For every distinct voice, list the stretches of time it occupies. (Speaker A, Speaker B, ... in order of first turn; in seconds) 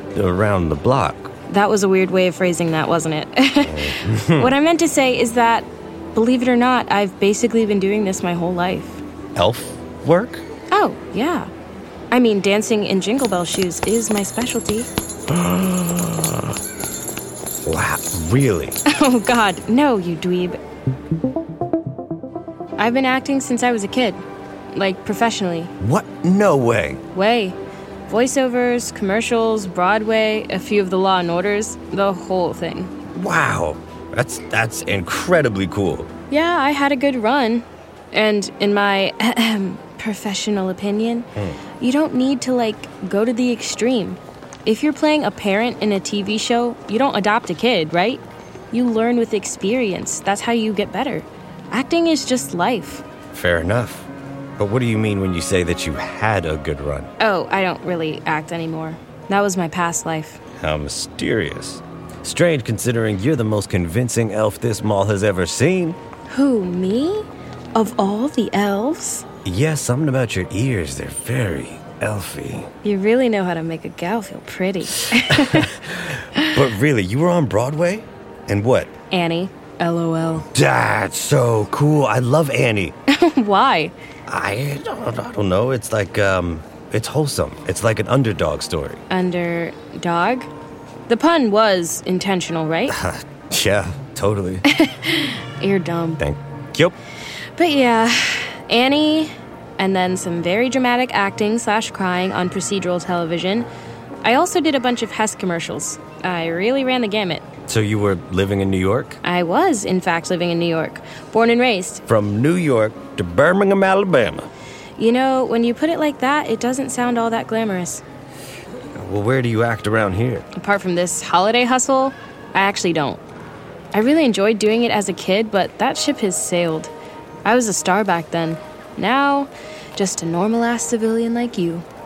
Speaker A: 0.1-1.3, 3.6-4.5, 9.4-10.4, 15.3-16.6, 17.6-18.8, 25.8-27.0, 33.1-36.1, 53.3-57.1, 60.6-66.0, 69.5-72.7, 75.1-78.9, 80.5-82.9, 84.3-89.0, 92.9-94.7, 96.2-97.0, 107.7-109.2, 112.1-114.5, 119.0-120.5
Speaker B: 1.5-9.0, 10.7-11.5, 12.1-14.9, 18.9-20.6, 22.8-24.2, 24.7-25.7, 27.1-27.6, 28.1-32.9, 36.3-41.3, 41.8-53.0, 57.2-60.4, 66.3-69.2, 72.8-75.8, 79.1-80.5, 83.1-83.9, 89.1-90.5, 91.1-93.0, 94.7-96.2, 97.6-103.7, 104.2-107.4, 109.2-112.0, 115.0-118.0, 120.5-123.2, 123.9-126.9, 127.5-131.9